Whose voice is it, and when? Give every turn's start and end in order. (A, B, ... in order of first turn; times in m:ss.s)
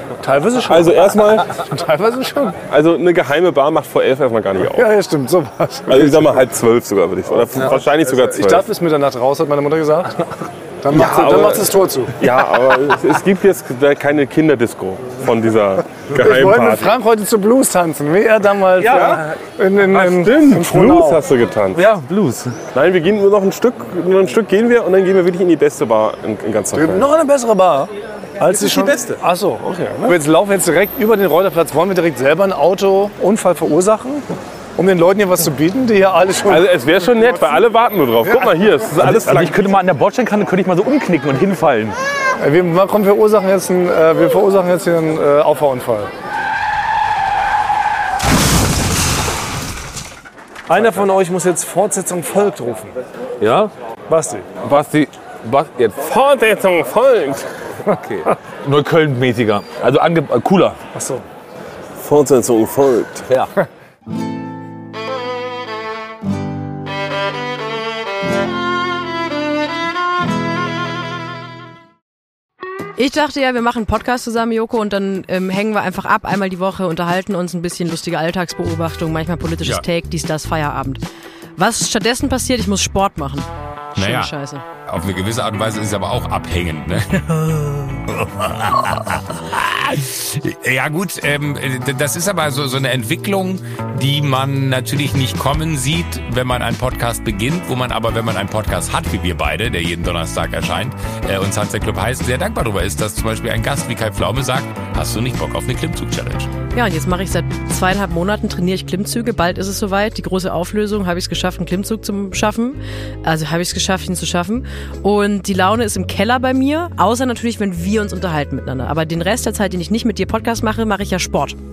0:00.2-0:02.6 A
0:00.7-0:01.6 B
0:02.7-0:04.9 B
0:04.7-0:06.4 A
0:05.9-0:08.7 B
0:08.0-0:12.2 A
0:10.9-0:16.9 B
0:16.1-0:21.2 A
0:18.8-0:19.3 B
0:19.9-0:21.9 B
0:21.7-0:22.6 C
0:22.7-0:27.1 B
0:26.7-0:34.2 A
0:28.5-0:29.2 B
0:34.8-0:36.7 A
0:36.5-0:39.6 B
0:39.0-0:42.0 C
0:42.4-0:46.1 A
0:50.7-0:53.0 A
0:53.4-0:53.7 C
0:54.1-0:54.5 A
0:54.6-0:56.0 C
0:56.0-0:57.5 B
0:57.9-1:00.8 C
1:00.9-1:01.2 A
1:02.0-1:03.3 B
1:03.3-1:03.5 C
1:13.0-1:21.0 D
1:21.6-1:24.6 D
1:24.0-1:46.5 E
1:46.7-2:01.6 D